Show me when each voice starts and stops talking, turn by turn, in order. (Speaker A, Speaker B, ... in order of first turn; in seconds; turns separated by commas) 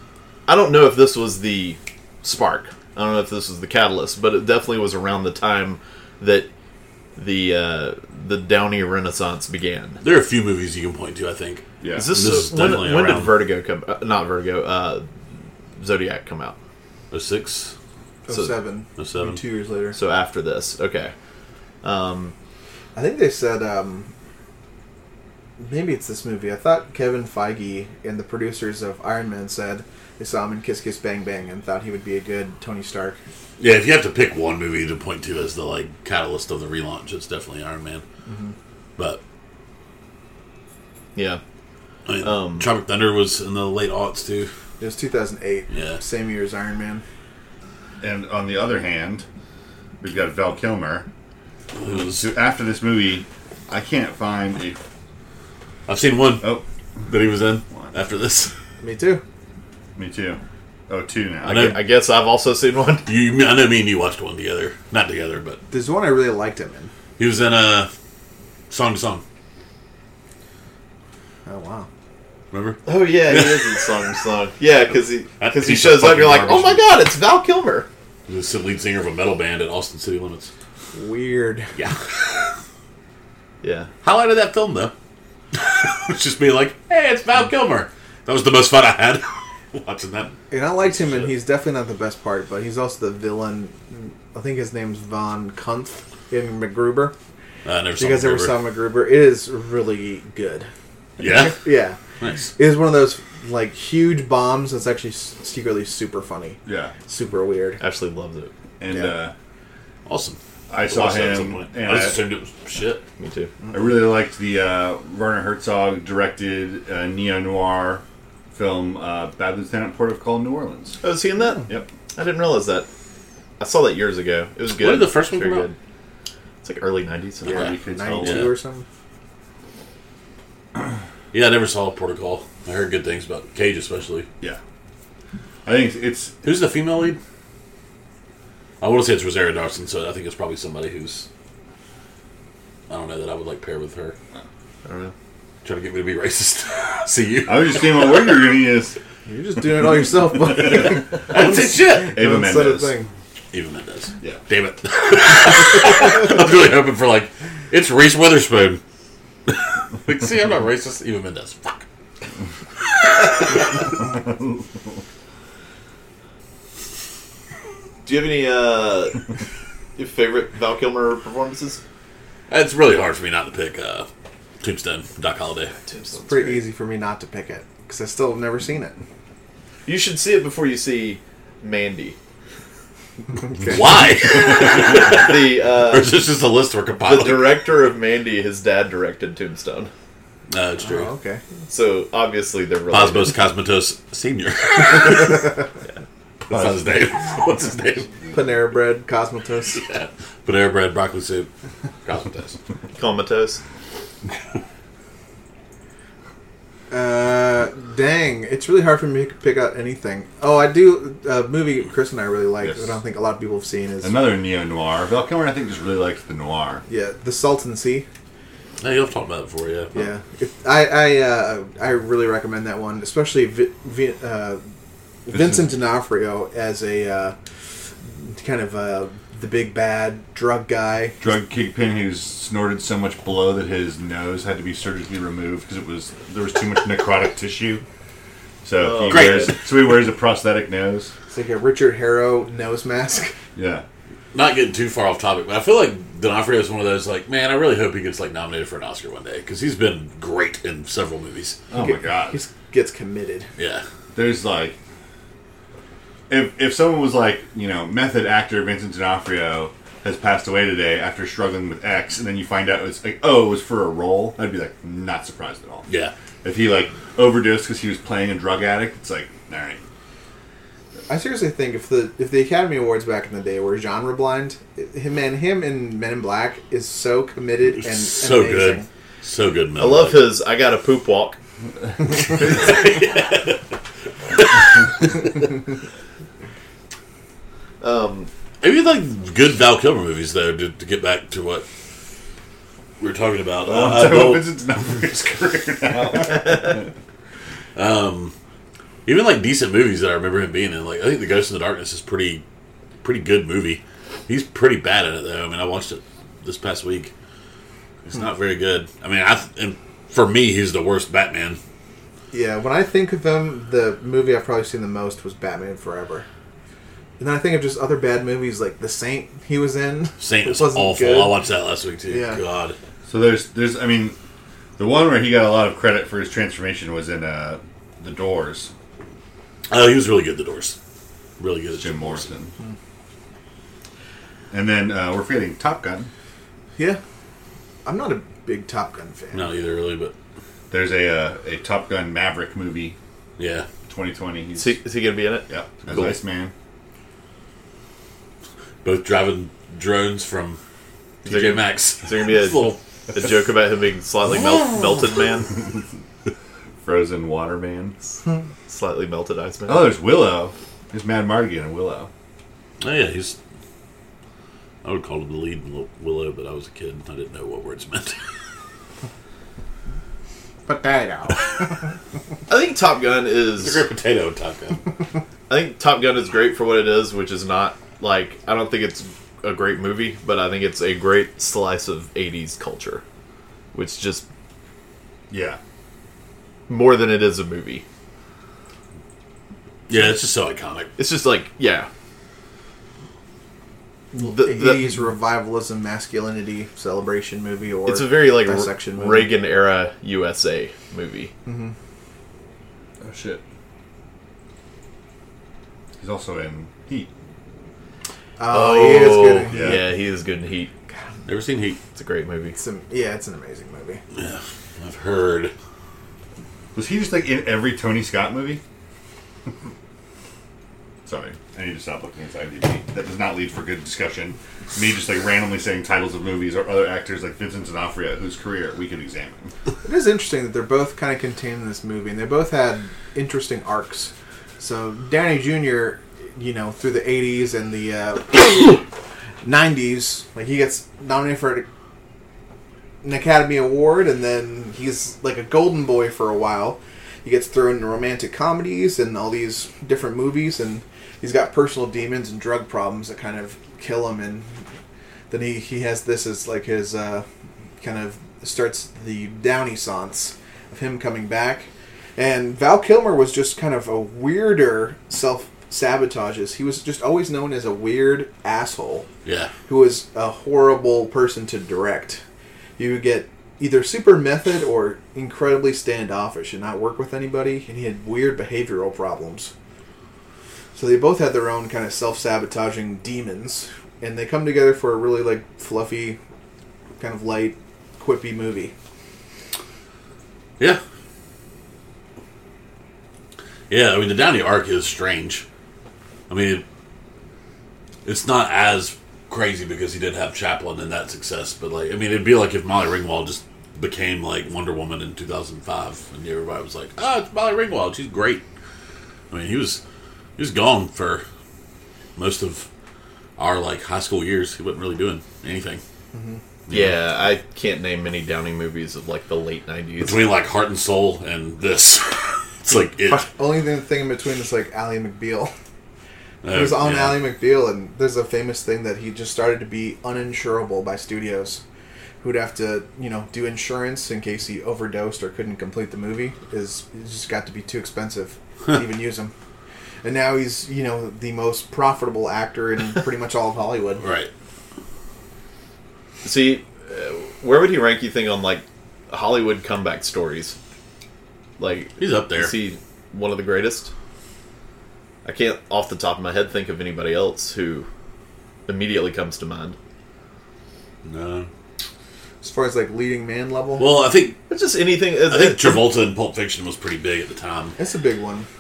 Speaker A: 0.5-6.5, Speaker A: 7.1-10.0, Speaker B: 10.0-13.3, Speaker C: 11.8-12.1, Speaker A: 11.9-15.1, Speaker A: 15.8-16.6, Speaker B: 17.1-17.7, Speaker D: 18.3-20.0, Speaker B: 19.0-19.4, Speaker A: 19.9-21.1, Speaker A: 21.8-22.3, Speaker D: 22.9-24.1, Speaker D: 25.6-33.2, Speaker B: 33.6-38.0, Speaker D: 38.2-38.5, Speaker A: 41.1-41.4, Speaker B: 42.1-44.5, Speaker A: 42.2-42.7, Speaker D: 44.8-47.0, Speaker B: 45.7-46.0, Speaker C: 48.0-49.2, Speaker C: 50.0-51.0, Speaker B: 51.7-52.3, Speaker C: 51.8-54.8, Speaker B: 55.9-56.5, Speaker B: 57.1-58.5, Speaker D: 58.8-59.2, Speaker C: 60.0-61.7, Speaker B: 61.4-61.8, Speaker A: 61.5-63.1, Speaker B: 63.0-65.6, Speaker D: 65.7-66.9, Speaker B: 67.2-67.9, Speaker B: 68.7-69.2, Speaker D: 71.5-71.9, Speaker B: 72.5-73.9, Speaker A: 72.8-77.9, Speaker B: 75.4-76.9, Speaker B: 78.3-80.5, Speaker D: 80.9-81.7, Speaker B: 81.8-82.5, Speaker A: 83.6-83.9, Speaker B: 84.0-84.9, Speaker B: 85.5-90.3, Speaker D: 90.5-97.1, Speaker B: 97.6-98.5, Speaker D: 98.0-102.0, Speaker B: 101.2-102.5, Speaker D: 102.5-107.8, Speaker C: 106.6-106.9, Speaker A: 107.8-108.5, Speaker C: 108.8-109.3, Speaker D: 108.9-109.2, Speaker B: 110.0-113.0, Speaker C: 110.7-112.2, Speaker A: 113.2-113.5, Speaker C: 113.7-121.0, Speaker A: 121.0-122.9, Speaker A: 123.6-125.8, Speaker B: 124.7-125.7, Speaker A: 126.6-127.7, Speaker C: 127.4-128.5, Speaker D: 127.5-128.8, Speaker B: 128.2-128.5, Speaker B: 131.3-134.3, Speaker C: 135.6-136.4, Speaker B: 136.4-137.2, Speaker B: 138.8-141.3, Speaker B: 142.9-144.2, Speaker A: 144.8-145.1, Speaker B: 145.6-148.4, Speaker C: 147.4-149.0, Speaker D: 149.3-153.1, Speaker C: 150.3-150.9, Speaker B: 151.2-152.2, Speaker C: 151.5-153.0, Speaker B: 153.5-158.8, Speaker B: 159.5-161.8, Speaker B: 162.9-163.7, Speaker A: 168.0-169.2, Speaker A: 169.9-171.8, Speaker B: 172.5-174.1, Speaker B: 174.6-175.8, Speaker A: 175.7-176.6, Speaker D: 176.3-179.0, Speaker A: 179.8-182.2, Speaker D: 183.5-183.8, Speaker B: 183.6-187.7, Speaker A: 184.8-186.1, Speaker A: 187.0-189.9, Speaker B: 190.5-191.1, Speaker D: 190.8-191.4, Speaker A: 191.7-193.3, Speaker B: 192.9-195.7, Speaker B: 196.4-198.1, Speaker D: 198.3-199.8, Speaker B: 199.7-201.5, Speaker B: 202.0-202.6, Speaker A: 202.9-203.6, Speaker D: 206.9-214.2, Speaker C: 212.6-212.9, Speaker C: 214.0-216.8, Speaker D: 216.9-218.1, Speaker B: 218.8-220.1, Speaker D: 219.9-224.6, Speaker D: 225.2-227.3, Speaker C: 225.3-225.7, Speaker D: 228.1-231.2, Speaker C: 231.2-237.8, Speaker C: 238.6-241.1, Speaker A: 238.8-239.5, Speaker B: 239.1-239.6, Speaker D: 241.3-243.3, Speaker C: 243.5-243.8, Speaker B: 244.3-251.6, Speaker C: 251.7-252.4, Speaker D: 251.7-253.5, Speaker B: 253.6-253.8, Speaker C: 254.1-254.8, Speaker C: 256.3-265.9, Speaker B: 265.9-266.1, Speaker C: 266.4-269.8, Speaker D: 271.1-278.9, Speaker B: 277.8-280.3, Speaker A: 279.8-281.4, Speaker B: 282.0-283.7, Speaker B: 284.3-285.3, Speaker A: 287.8-288.3, Speaker B: 288.6-291.6, Speaker B: 293.0-294.5, Speaker C: 293.6-296.9, Speaker B: 297.7-298.3, Speaker B: 299.0-302.4, Speaker B: 303.0-307.1, Speaker B: 308.1-311.6, Speaker D: 312.3-316.3, Speaker D: 317.2-321.4, Speaker B: 320.2-322.8, Speaker D: 322.1-322.4, Speaker C: 323.1-324.2, Speaker C: 324.8-328.7, Speaker B: 329.7-330.8, Speaker B: 331.4-332.3, Speaker C: 331.7-332.5, Speaker C: 334.5-336.1, Speaker D: 337.8-339.5, Speaker B: 339.3-340.1, Speaker C: 340.7-342.9, Speaker B: 343.4-343.7, Speaker C: 343.9-344.8, Speaker A: 344.6-346.2, Speaker C: 345.5-346.5, Speaker B: 348.8-350.6, Speaker B: 351.2-352.8, Speaker A: 351.2-355.5, Speaker C: 356.8-357.9, Speaker A: 358.6-359.9, Speaker C: 359.7-362.1, Speaker B: 362.8-363.4, Speaker B: 364.8-368.2, Speaker D: 370.7-371.5, Speaker A: 372.5-373.9, Speaker B: 373.6-374.9, Speaker A: 375.5-383.0, Speaker A: 383.7-384.2, Speaker C: 385.3-385.6, Speaker A: 386.7-387.8, Speaker B: 389.9-390.9, Speaker A: 391.0-391.9, Speaker D: 394.1-399.3, Speaker A: 394.1-395.1, Speaker A: 397.9-401.3, Speaker D: 401.4-401.7, Speaker C: 403.0-403.4, Speaker C: 406.0-407.1, Speaker D: 408.4-409.8, Speaker A: 408.5-410.7, Speaker C: 409.5-409.9, Speaker B: 411.2-411.8, Speaker A: 411.9-412.6, Speaker D: 412.5-414.0, Speaker B: 414.1-415.5, Speaker C: 416.7-418.6, Speaker C: 421.1-429.5, Speaker D: 429.8-438.8, Speaker D: 439.4-441.7, Speaker D: 443.0-454.5, Speaker D: 455.3-457.2, Speaker D: 457.8-469.1, Speaker B: 469.2-469.5, Speaker D: 469.7-472.2, Speaker D: 472.8-479.5, Speaker D: 480.7-486.2, Speaker D: 487.0-488.7, Speaker B: 493.7-495.4, Speaker B: 496.3-496.6, Speaker B: 498.0-508.4, Speaker B: 509.3-509.8, Speaker B: 510.4-511.2, Speaker B: 512.1-512.7, Speaker B: 513.4-515.8, Speaker D: 516.1-516.4, Speaker B: 516.7-517.0, Speaker A: 516.7-520.2, Speaker B: 520.0-523.3, Speaker D: 523.1-525.5, Speaker B: 526.4-527.2, Speaker D: 526.5-531.6, Speaker D: 532.2-539.3, Speaker D: 540.0-544.0, Speaker B: 544.0-544.3, Speaker A: 546.2-550.5, Speaker A: 551.6-553.9, Speaker B: 552.0-552.5, Speaker A: 555.2-557.9, Speaker A: 558.7-559.8, Speaker B: 561.0-561.5, Speaker D: 562.4-563.9, Speaker B: 563.8-564.4, Speaker A: 564.5-565.9, Speaker B: 565.2-567.7, Speaker D: 567.8-568.5